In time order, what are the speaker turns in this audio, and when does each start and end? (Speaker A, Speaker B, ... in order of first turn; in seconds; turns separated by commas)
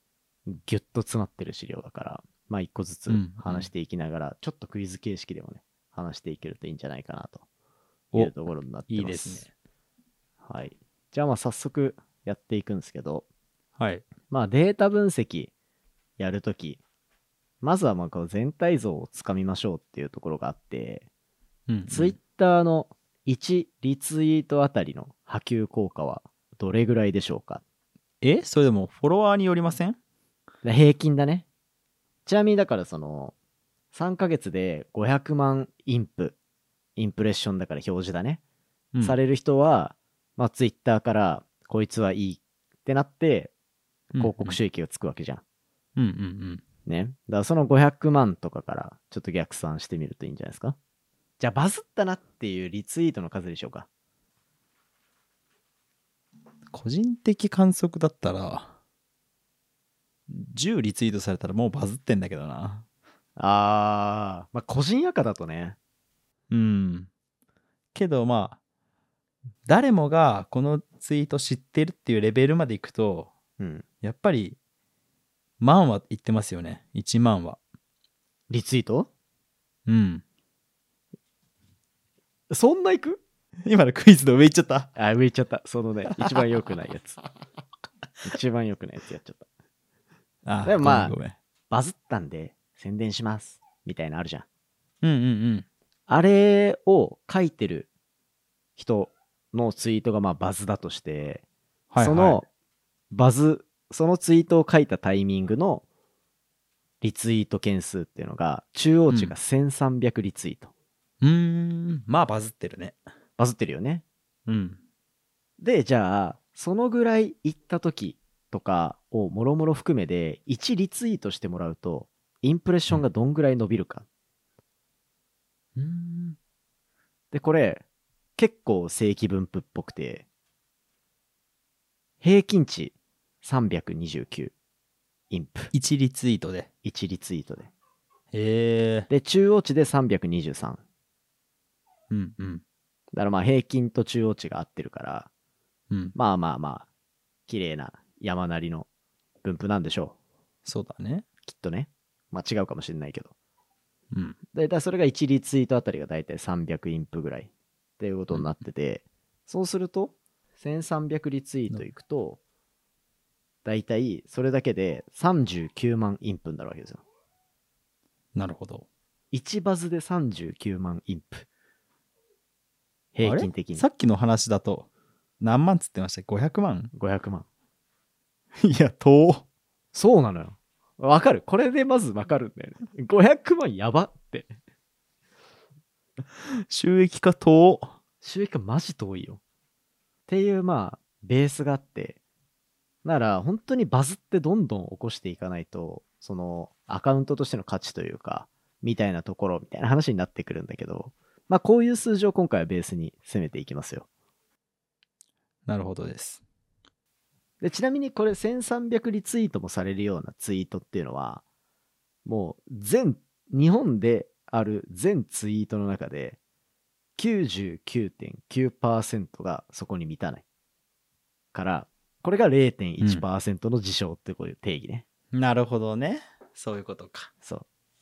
Speaker A: 0.5-7.4, Speaker B: 3.1-3.7, Speaker A: 8.1-9.5, Speaker B: 8.9-9.5, Speaker A: 10.4-13.2, Speaker B: 13.8-14.1, Speaker A: 14.3-15.5, Speaker A: 16.2-16.8, Speaker A: 17.6-21.1, Speaker B: 21.7-22.1, Speaker A: 21.9-27.6, Speaker B: 28.2-30.0, Speaker A: 30.6-31.4, Speaker A: 32.2-33.3, Speaker A: 33.9-36.4, Speaker A: 37.0-38.4, Speaker A: 39.0-43.5, Speaker A: 44.1-45.4, Speaker B: 44.1-44.6, Speaker B: 46.0-46.6, Speaker A: 46.9-50.8, Speaker A: 51.4-53.9, Speaker B: 56.7-58.7, Speaker B: 60.3-62.8, Speaker A: 63.4-65.8, Speaker B: 66.5-67.1, Speaker B: 67.9-68.6, Speaker B: 69.7-73.3, Speaker A: 73.6-73.8, Speaker B: 74.0-74.6, Speaker B: 75.6-77.6, Speaker A: 78.5-79.1, Speaker B: 79.8-80.2, Speaker A: 82.5-83.2, Speaker B: 83.6-84.9, Speaker A: 85.0-87.2, Speaker A: 88.2-89.4, Speaker B: 90.4-91.3, Speaker A: 90.6-91.2, Speaker A: 91.7-94.4, Speaker B: 95.0-95.7, Speaker A: 96.1-97.9, Speaker A: 98.8-101.4, Speaker B: 101.9-102.4, Speaker A: 102.0-102.5, Speaker A: 103.1-105.8, Speaker A: 107.0-110.7, Speaker B: 111.2-113.0, Speaker A: 113.4-114.0, Speaker B: 114.5-114.8, Speaker A: 115.6-124.0, Speaker B: 125.8-126.4, Speaker A: 127.3-127.8, Speaker A: 128.4-130.2, Speaker A: 132.2-134.5, Speaker A: 135.3-135.7, Speaker B: 135.7-136.7, Speaker A: 136.8-137.7, Speaker B: 138.3-139.1, Speaker A: 139.1-140.8, Speaker B: 142.1-142.6, Speaker A: 143.1-145.3, Speaker B: 145.9-146.1, Speaker A: 146.1-146.9, Speaker A: 147.5-148.9, Speaker A: 149.4-150.2, Speaker B: 150.6-151.2, Speaker A: 151.4-153.3, Speaker B: 154.1-154.4, Speaker A: 154.5-162.4, Speaker A: 163.6-167.0, Speaker B: 168.3-168.8, Speaker A: 169.3-171.4, Speaker A: 173.1-173.8, Speaker B: 173.2-174.9, Speaker B: 175.4-176.9, Speaker A: 176.9-177.4, Speaker B: 178.6-179.4, Speaker A: 179.9-184.5, Speaker B: 186.5-187.9, Speaker A: 188.2-189.4, Speaker A: 190.3-192.2, Speaker A: 193.0-204.1, Speaker B: 205.7-206.4, Speaker A: 207.6-211.4, Speaker A: 212.2-216.4, Speaker A: 217.2-220.4, Speaker A: 221.5-225.0, Speaker B: 223.0-223.2, Speaker B: 225.3-227.3